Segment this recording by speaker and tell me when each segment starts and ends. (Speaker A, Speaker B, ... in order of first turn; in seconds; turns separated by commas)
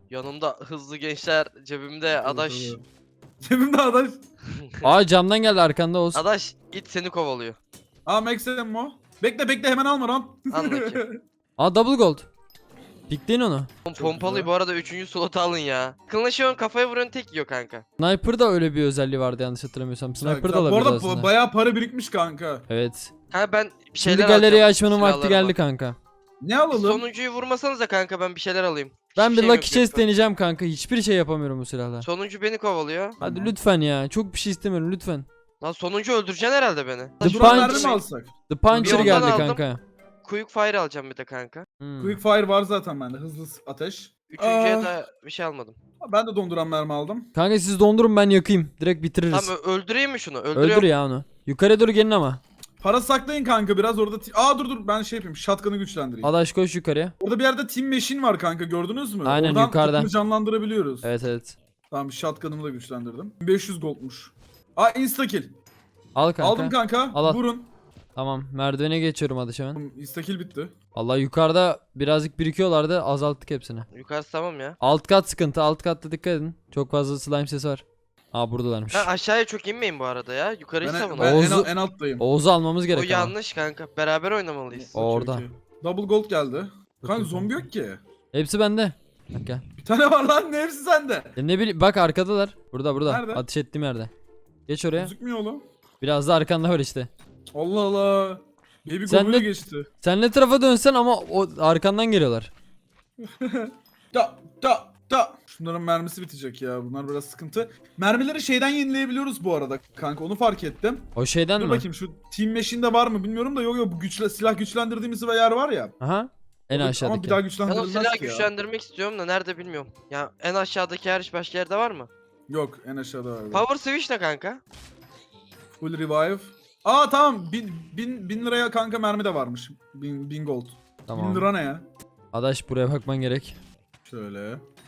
Speaker A: 0.1-2.8, Speaker B: 2.2-2.8, Speaker B: 3.4-4.2, Speaker A: 4.5-4.9, Speaker C: 4.8-6.2, Speaker A: 6.1-7.6, Speaker B: 8.1-11.2, Speaker A: 10.5-11.0, Speaker C: 11.6-12.3, Speaker C: 13.1-13.7, Speaker A: 13.9-17.8, Speaker B: 13.9-14.5, Speaker C: 18.0-21.3, Speaker B: 20.2-22.7, Speaker C: 22.7-23.1, Speaker A: 23.3-25.6, Speaker C: 24.0-26.0, Speaker B: 26.4-27.1, Speaker A: 26.7-30.1, Speaker C: 29.2-32.1, Speaker A: 32.0-33.2, Speaker B: 33.2-33.5, Speaker C: 33.2-35.3, Speaker A: 35.6-38.0, Speaker C: 37.2-39.8, Speaker B: 37.2-39.5, Speaker A: 38.8-39.6, Speaker A: 40.2-41.7, Speaker C: 41.8-42.2, Speaker B: 42.0-44.9, Speaker A: 44.3-45.8, Speaker B: 46.0-47.3, Speaker C: 47.4-49.5, Speaker A: 49.3-50.9, Speaker C: 50.5-52.4, Speaker B: 52.8-56.3, Speaker C: 56.2-57.1, Speaker B: 57.2-61.1, Speaker C: 59.2-60.1, Speaker C: 61.0-61.6, Speaker B: 61.9-65.6, Speaker C: 66.2-67.4, Speaker B: 66.4-67.7, Speaker C: 68.2-69.8, Speaker B: 69.8-70.8, Speaker C: 71.0-73.9, Speaker A: 73.9-74.8, Speaker C: 74.8-79.1, Speaker A: 78.9-81.5, Speaker B: 80.8-82.2, Speaker C: 81.2-83.3, Speaker A: 82.9-84.9, Speaker B: 84.7-88.0, Speaker C: 85.0-85.5, Speaker C: 87.0-87.7, Speaker C: 88.3-89.6, Speaker B: 89.8-91.3, Speaker C: 91.4-94.1, Speaker B: 93.1-93.4, Speaker C: 94.7-95.1, Speaker B: 94.9-95.6, Speaker C: 96.0-97.1, Speaker B: 97.5-99.9, Speaker C: 99.1-102.5, Speaker B: 103.2-115.9, Speaker C: 111.2-111.9, Speaker C: 116.0-117.4, Speaker B: 116.7-118.5, Speaker A: 117.7-122.1, Speaker B: 122.5-123.7, Speaker A: 123.5-124.6, Speaker B: 125.8-131.8, Speaker C: 131.1-131.5, Speaker C: 132.3-133.6, Speaker B: 134.1-134.6